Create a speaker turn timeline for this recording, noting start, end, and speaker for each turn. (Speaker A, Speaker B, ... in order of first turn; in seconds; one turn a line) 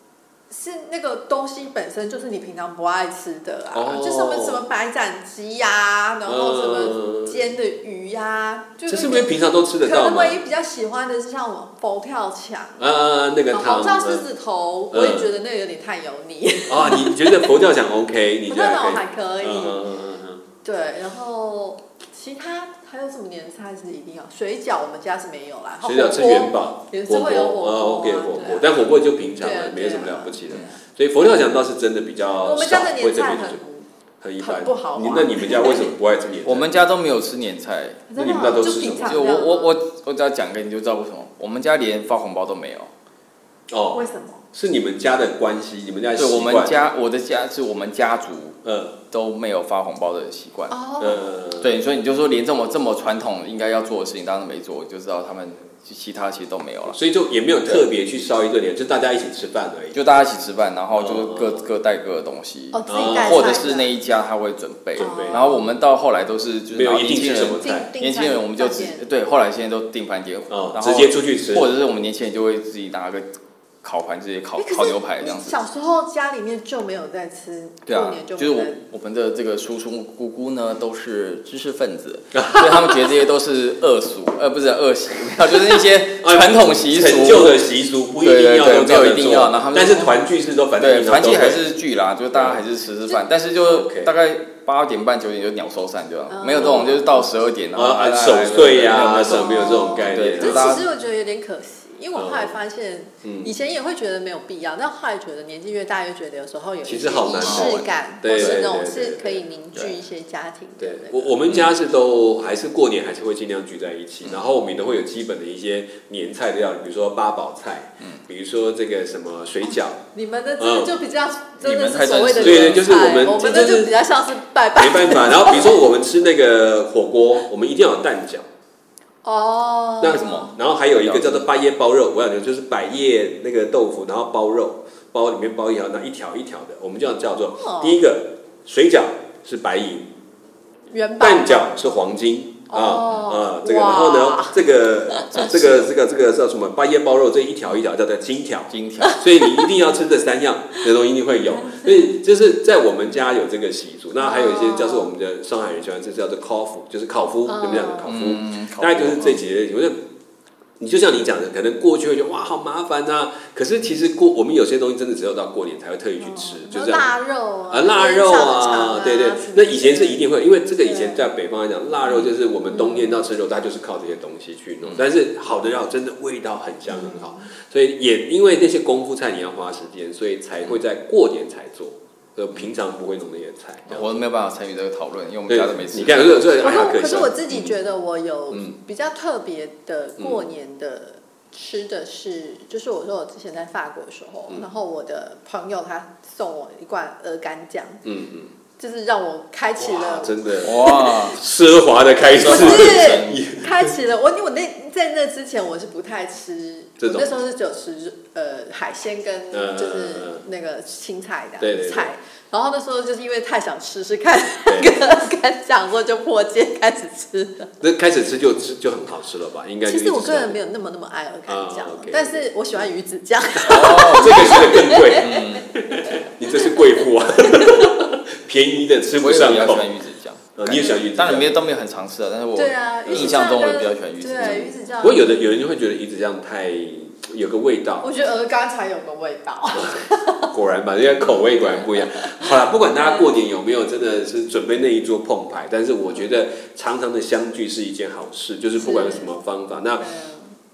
Speaker A: 0.5-12.9
Speaker B: 3.7-4.6
Speaker B: 6.2-7.4
Speaker B: 8.9-10.4
Speaker B: 12.8-14.2
Speaker A: 13.5-17.6
Speaker B: 14.9-15.3
Speaker B: 16.6-20.4
Speaker A: 18.5-19.9
Speaker A: 20.6-28.8
Speaker B: 25.8-33.6
Speaker A: 29.4-30.4
Speaker A: 32.4-33.9
Speaker B: 34.2-36.6
Speaker A: 34.4-35.9
Speaker C: 36.4-38.0
Speaker A: 38.1-39.7
Speaker B: 38.2-39.3
Speaker C: 39.0-42.9
Speaker B: 43.7-46.8
Speaker A: 43.9-44.4
Speaker C: 46.2-48.6
Speaker B: 48.6-48.9
Speaker C: 49.1-50.8
Speaker A: 50.7-51.2
Speaker B: 51.0-51.7
Speaker C: 51.6-57.0
Speaker B: 56.9-60.0
Speaker C: 59.9-73.2
Speaker B: 60.9-61.6
Speaker A: 62.7-63.9
Speaker B: 62.9-63.6
Speaker B: 65.0-65.4
Speaker A: 65.0-65.7
Speaker B: 66.7-67.9
Speaker A: 67.6-69.0
Speaker B: 70.5-71.7
Speaker C: 73.8-75.5
Speaker A: 74.6-78.8
Speaker C: 77.9-87.6
Speaker B: 82.3-83.1
Speaker B: 86.2-91.6
Speaker C: 88.2-90.2
Speaker C: 90.8-100.8
Speaker B: 92.3-92.6
Speaker B: 93.6-94.1
Speaker A: 96.3-97.3
Speaker B: 97.7-100.8
Speaker A: 99.1-111.4
Speaker B: 102.1-102.5
Speaker B: 103.2-103.5
Speaker B: 106.8-109.4
Speaker C: 107.4-108.6
Speaker B: 110.8-120.0
Speaker A: 120.1-125.8
Speaker B: 120.6-120.9
Speaker C: 121.6-123.0
Speaker B: 122.4-123.9
Speaker B: 124.7-128.4
Speaker A: 129.2-130.6
Speaker B: 130.0-140.1
Speaker C: 130.1-131.4
Speaker A: 137.6-138.0
Speaker A: 140.9-141.8
Speaker B: 141.2-160.0
Speaker A: 142.7-145.4
Speaker C: 145.3-145.9
Speaker C: 148.7-149.2
Speaker A: 149.0-149.7
Speaker A: 151.6-152.1
Speaker A: 154.2-155.1
Speaker A: 157.4-158.2
Speaker C: 158.1-159.4
Speaker B: 160.8-167.1
Speaker A: 166.2-171.2
Speaker B: 167.7-184.1
Speaker A: 172.7-173.2
Speaker A: 176.9-177.4
Speaker C: 183.9-186.7
Speaker B: 185.5-187.7
Speaker A: 186.6-198.0
Speaker B: 188.5-188.8
Speaker B: 190.2-190.5
Speaker B: 198.0-198.5
Speaker A: 198.8-200.7
Speaker B: 199.8-203.9
Speaker C: 200.6-201.4
Speaker C: 202.3-203.4
Speaker A: 202.4-217.7
Speaker B: 207.0-207.3
Speaker B: 209.5-210.4
Speaker B: 211.6-212.1
Speaker B: 217.8-220.6
Speaker A: 219.8-228.0
Speaker B: 221.5-222.8
Speaker C: 223.7-225.7
Speaker B: 223.7-229.9
Speaker C: 229.2-234.7
Speaker B: 230.6-231.6
Speaker A: 232.6-235.5
Speaker B: 233.1-233.4
Speaker B: 234.4-238.1
Speaker A: 238.0-240.5
Speaker B: 239.7-250.0
Speaker A: 241.3-243.2
Speaker A: 248.8-249.3
Speaker A: 250.0-250.6